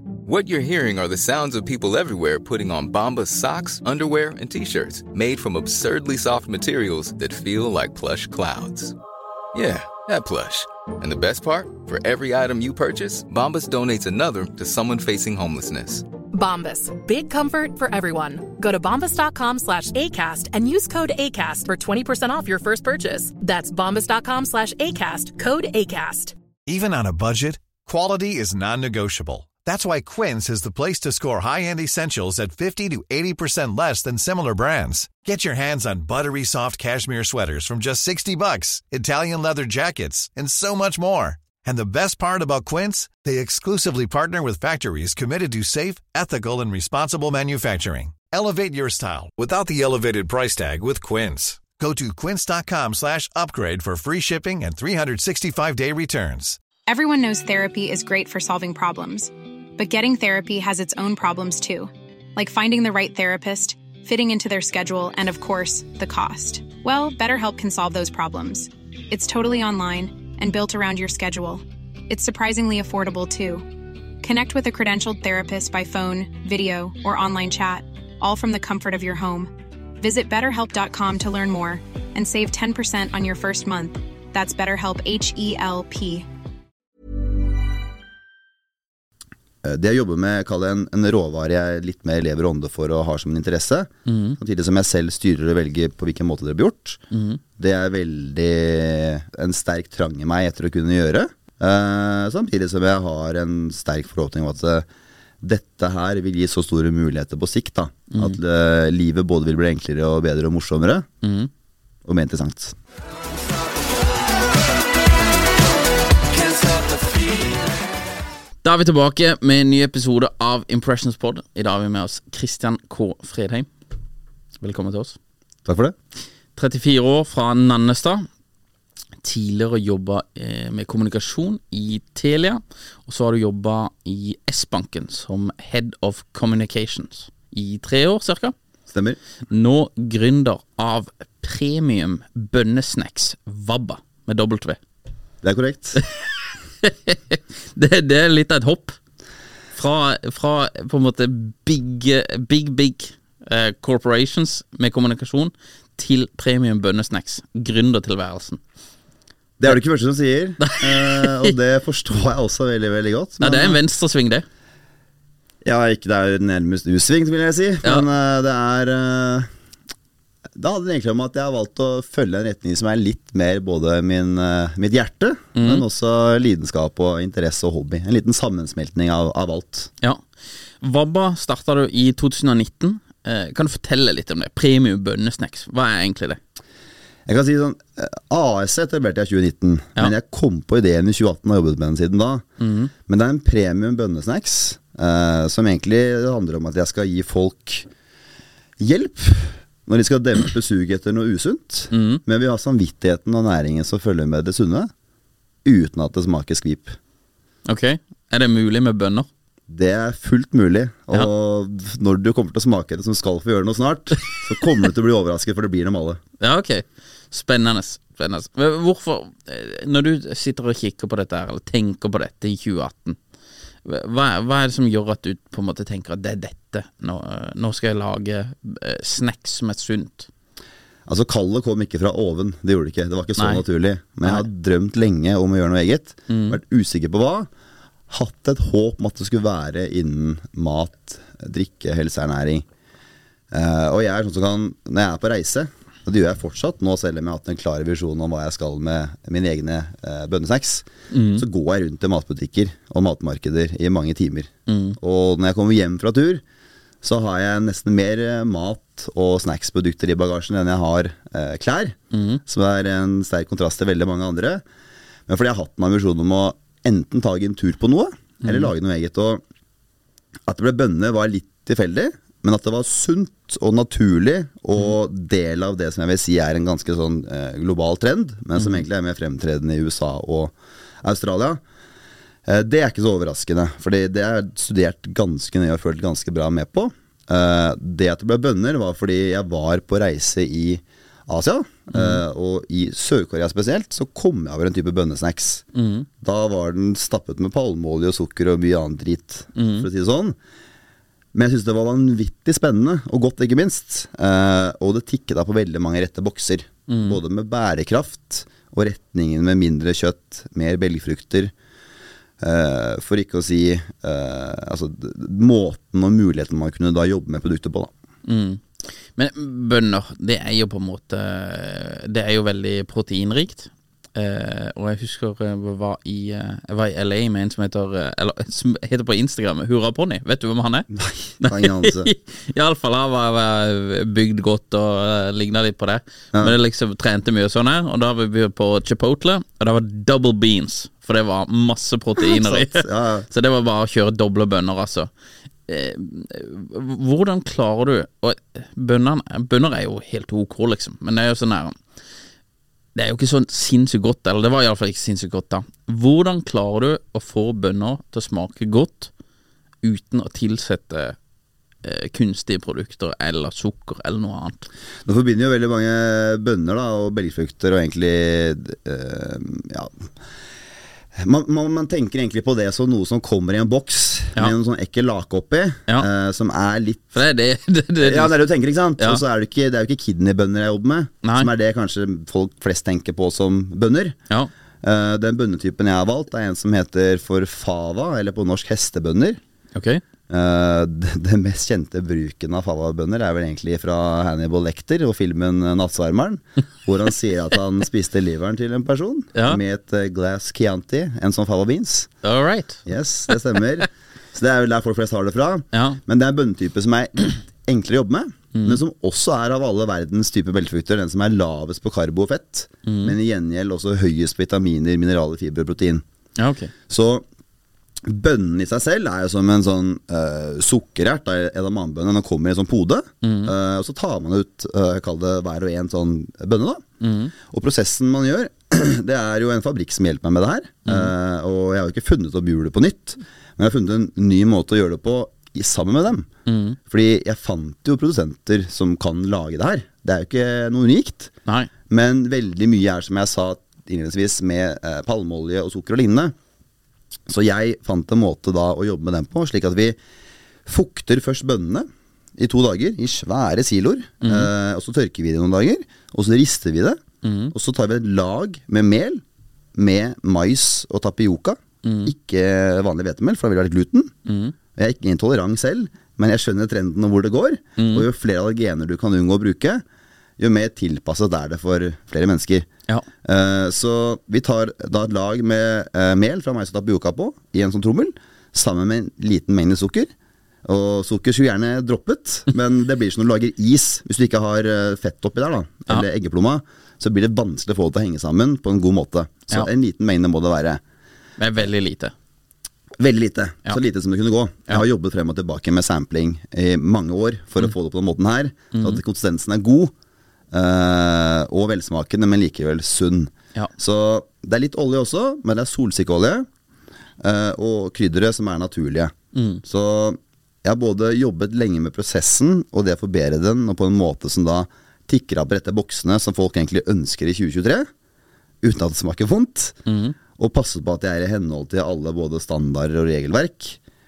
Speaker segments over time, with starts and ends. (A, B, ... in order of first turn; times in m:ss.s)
0:00.2-0:09.0 A
0:09.5-0:16.1 A
0:16.3-0:26.4 B
0:26.7-0:56.6 C
0:56.9-1:13.7 D
1:14.2-1:26.3 D
1:29.6-1:37.0 E
1:34.1-1:34.4 F
1:37.1-1:37.4 F
1:37.6-1:44.9 E
1:45.4-1:51.1 E
1:48.1-1:48.4 F
1:51.2-1:51.5 F
1:52.0-1:52.8 E
1:58.6-2:03.7 F
2:04.6-2:05.2 F
2:05.6-2:06.0 E
2:06.6-2:08.3 F
2:09.2-2:18.6 F
2:18.9-2:19.2 E
2:19.5-2:24.8 F
2:25.4-2:26.0 E
2:26.8-2:29.0 F
2:29.7-2:38.6 F
2:39.6-2:43.8 E
2:40.6-2:41.5 F
2:43.4-2:44.5 F
2:45.6-2:49.5 E
2:50.6-2:59.9 E
2:55.6-2:55.8 F
3:00.8-3:06.4 F
3:07.3-3:12.4 E
3:12.6-3:12.9 F
3:13.1-3:17.9 E
3:18.8-3:24.9 E
3:21.9-3:22.2 F
3:25.6-3:27.0 E
3:27.7-3:29.3 F
3:29.7-3:36.2 E
3:36.4-3:43.2 F
3:43.8-3:50.3 F
3:51.1-3:57.5 E
3:53.4-3:53.6 F
3:56.3-3:56.6 F
3:58.1-4:02.7 E
4:03.5-4:16.4 E
4:11.1-4:11.4 F
4:14.7-4:15.0 F
4:17.0-4:24.6 E
4:22.1-4:22.4 F
4:25.3-4:29.4 E
4:28.4-4:28.7 F
4:30.5-4:41.6 E
4:38.6-4:38.8 F
4:42.5-4:55.6 E
4:51.9-4:52.2 F
4:55.7-4:56.1 F
4:56.2-5:00.4 E
4:59.6-4:59.9 F
5:01.3-5:11.5 E
5:06.9-5:07.2 F
5:12.4-5:17.9 E
5:18.2-5:30.9 F
5:30.9-5:32.1 E
5:31.4-5:45.1 F
5:42.2-5:43.3 E
5:45.7-5:51.8 F
5:53.0-5:59.1 F
5:59.8-6:01.2 F
6:01.8-6:04.7 F
6:05.0-6:10.0 E
6:11.2-6:17.2 E
6:17.1-6:18.4 F
6:18.0-6:24.2 E
6:21.2-6:21.5 F
6:24.8-6:29.4 E
6:29.8-6:30.0 F
6:30.3-6:42.1 E
6:39.4-6:39.6 F
6:42.2-6:43.4 F
6:42.9-6:56.0 E
6:45.7-6:46.0 F
6:48.5-6:48.8 F
6:52.9-6:53.1 F
6:56.4-6:56.7 F
6:56.9-6:57.2 E
6:58.0-7:06.8 E
7:03.2-7:03.5 F
7:07.0-7:07.3 F
7:07.4-7:16.3 E
7:10.9-7:11.1 F
7:16.5-7:16.8 F
7:16.9-7:21.3 E
7:21.9-7:26.4 E
7:27.3-7:30.0 E
7:30.7-7:37.0 E
7:34.2-7:34.5 F
7:37.2-7:37.5 F
7:37.5-7:39.2 E
7:39.8-7:44.1 E
7:41.8-7:42.1 F
7:44.3-7:44.6 F
7:44.8-7:49.8 E
7:47.8-7:48.1 F
7:50.4-7:52.7 E
7:53.2-8:00.1 E
8:00.6-8:10.8 E
8:11.4-8:12.1 F
8:13.0-8:19.9 E
8:18.7-8:19.0 F
8:20.5-8:26.5 E
8:27.2-8:37.9 E
8:29.3-8:29.6 F
8:38.6-8:39.8 E
8:39.9-8:40.2 F
8:40.4-8:43.8 E